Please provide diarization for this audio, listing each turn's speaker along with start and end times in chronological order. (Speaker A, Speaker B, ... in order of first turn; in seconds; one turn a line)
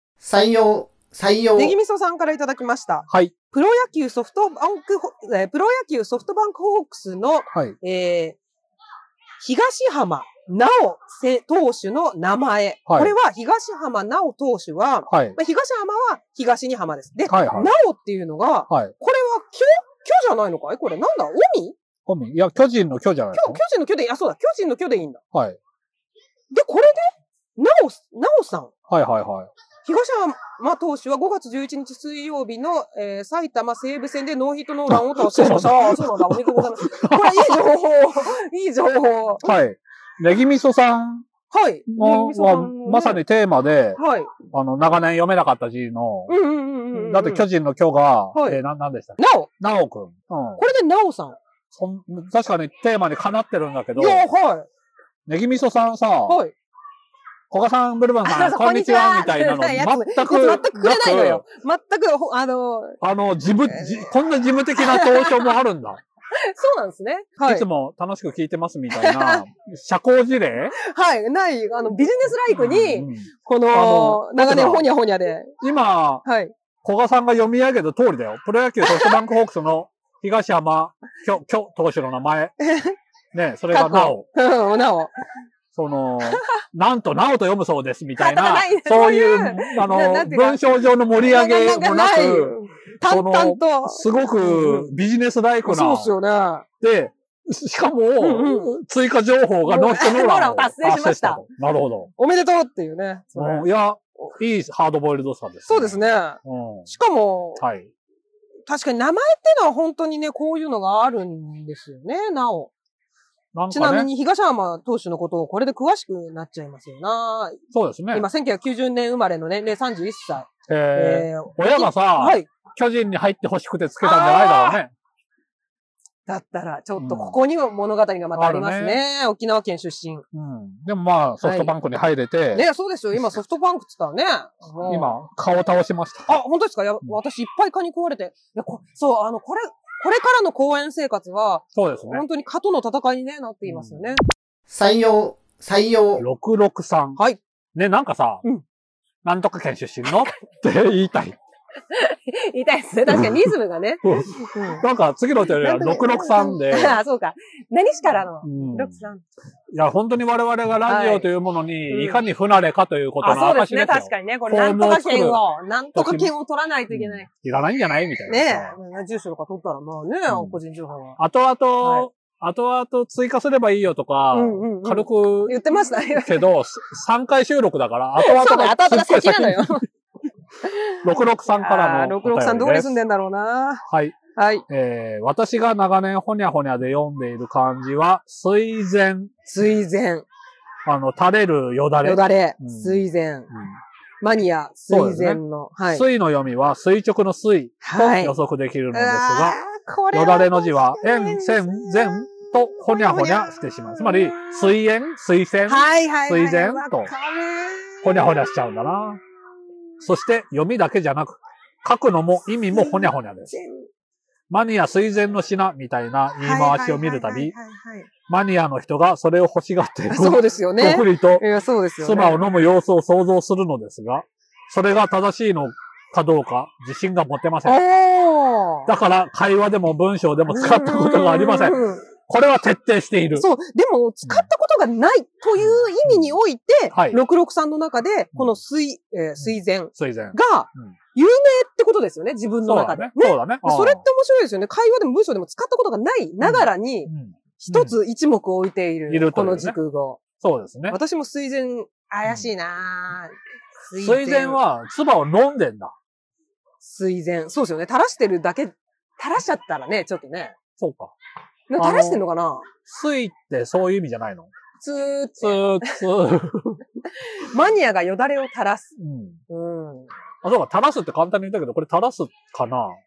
Speaker A: 0.2-1.8
Speaker B: 1.6-8.4
Speaker C: 3.1-3.3
Speaker B: 9.4-21.8
Speaker C: 12.8-13.1
Speaker C: 15.1-15.4
Speaker C: 17.3-17.7
Speaker C: 22.1-23.6
Speaker B: 23.3-25.2
Speaker C: 25.3-25.6
Speaker B: 26.5-28.7
Speaker C: 28.9-29.5
Speaker B: 29.8-39.5
Speaker C: 34.9-37.6
Speaker C: 39.4-41.2
Speaker B: 41.5-43.2
Speaker C: 41.9-46.3
Speaker B: 44.0-44.3
Speaker B: 46.3-47.4
Speaker C: 46.9-50.6
Speaker B: 48.3-48.6
Speaker B: 49.2-49.5
Speaker B: 50.6-51.4
Speaker C: 51.7-54.2
Speaker B: 53.9-54.7
Speaker C: 55.3-56.4
Speaker B: 56.3-56.5
Speaker C: 57.5-61.4
Speaker B: 58.2-63.0
Speaker C: 63.0-66.0
Speaker B: 63.7-64.0
Speaker B: 64.8-65.5
Speaker B: 66.3-67.7
Speaker C: 67.4-70.7
Speaker B: 68.9-69.4
Speaker B: 70.8-75.5
Speaker C: 72.5-74.9
Speaker C: 75.6-76.2
Speaker B: 76.2-76.5
Speaker C: 76.8-82.5
Speaker B: 78.8-79.1
Speaker B: 82.6-82.9
Speaker C: 83.3-84.2
Speaker B: 83.7-85.1
Speaker C: 85.7-96.1
Speaker B: 86.2-86.6
Speaker B: 88.2-94.9
Speaker B: 95.6-96.6
Speaker C: 96.8-102.1
Speaker B: 98.2-98.7
Speaker B: 99.6-101.4
Speaker B: 102.2-103.7
Speaker C: 103.3-106.9
Speaker B: 105.7-107.6
Speaker C: 107.6-107.9
Speaker B: 108.7-112.7
Speaker C: 113.5-114.1
Speaker B: 113.7-117.6
Speaker C: 117.7-118.3
Speaker B: 118.1-122.5
Speaker C: 120.7-124.9
Speaker B: 124.0-124.8
Speaker B: 126.3-130.2
Speaker C: 127.0-127.4
Speaker C: 128.3-129.0
Speaker C: 130.3-132.6
Speaker B: 131.4-131.7
Speaker B: 132.5-135.2
Speaker C: 134.8-136.3
Speaker B: 136.3-144.2
Speaker C: 141.7-142.2
Speaker C: 143.7-144.1
Speaker A: 144.7-146.2
Speaker C: 146.2-147.2
Speaker C: 147.7-148.4
Speaker C: 149.2-151.4
Speaker B: 151.9-154.8
Speaker C: 153.1-153.5
Speaker C: 154.0-157.0
Speaker B: 155.5-159.2
Speaker C: 158.4-159.0
Speaker C: 159.7-165.4
Speaker B: 160.9-161.3
Speaker B: 161.9-162.2
Speaker B: 163.2-167.3
Speaker C: 165.9-166.3
Speaker C: 166.9-168.7
Speaker B: 168.3-171.2
Speaker C: 170.3-170.6
Speaker C: 171.2-175.6
Speaker B: 171.8-172.1
Speaker B: 174.3-176.4
Speaker C: 176.2-179.8
Speaker B: 178.2-179.8
Speaker B: 180.6-181.0
Speaker C: 181.0-183.0
Speaker B: 181.6-184.6
Speaker C: 183.9-184.2
Speaker C: 184.7-189.3
Speaker B: 189.5-190.2
Speaker C: 190.8-193.8
Speaker B: 192.0-193.5
Speaker B: 194.2-196.0
Speaker C: 194.9-199.6
Speaker B: 197.8-198.3
Speaker B: 198.9-204.7
Speaker C: 200.1-207.1
Speaker B: 205.7-208.8
Speaker C: 208.0-209.2
Speaker C: 210.0-213.6
Speaker B: 212.7-213.9
Speaker C: 214.5-217.5
Speaker B: 216.4-218.1
Speaker C: 218.3-221.4
Speaker B: 220.1-222.4
Speaker C: 222.0-227.8
Speaker B: 227.6-228.9
Speaker C: 228.9-233.5
Speaker B: 230.5-232.0
Speaker B: 233.3-250.2
Speaker C: 234.2-234.5
Speaker C: 235.6-236.3
Speaker C: 236.9-237.2
Speaker C: 239.4-240.9
Speaker C: 242.6-244.0
Speaker C: 246.4-247.9
Speaker C: 249.1-249.8
Speaker C: 250.4-251.0
Speaker B: 250.9-254.6
Speaker C: 252.2-252.5
Speaker C: 253.9-255.9
Speaker B: 256.8-260.5
Speaker C: 260.8-261.1
Speaker B: 261.7-262.7
Speaker C: 261.8-262.2
Speaker C: 262.9-264.5
Speaker B: 264.8-266.0
Speaker C: 265.4-266.8
Speaker B: 267.1-268.9
Speaker C: 269.0-269.4
Speaker B: 269.5-270.1
Speaker C: 270.4-273.0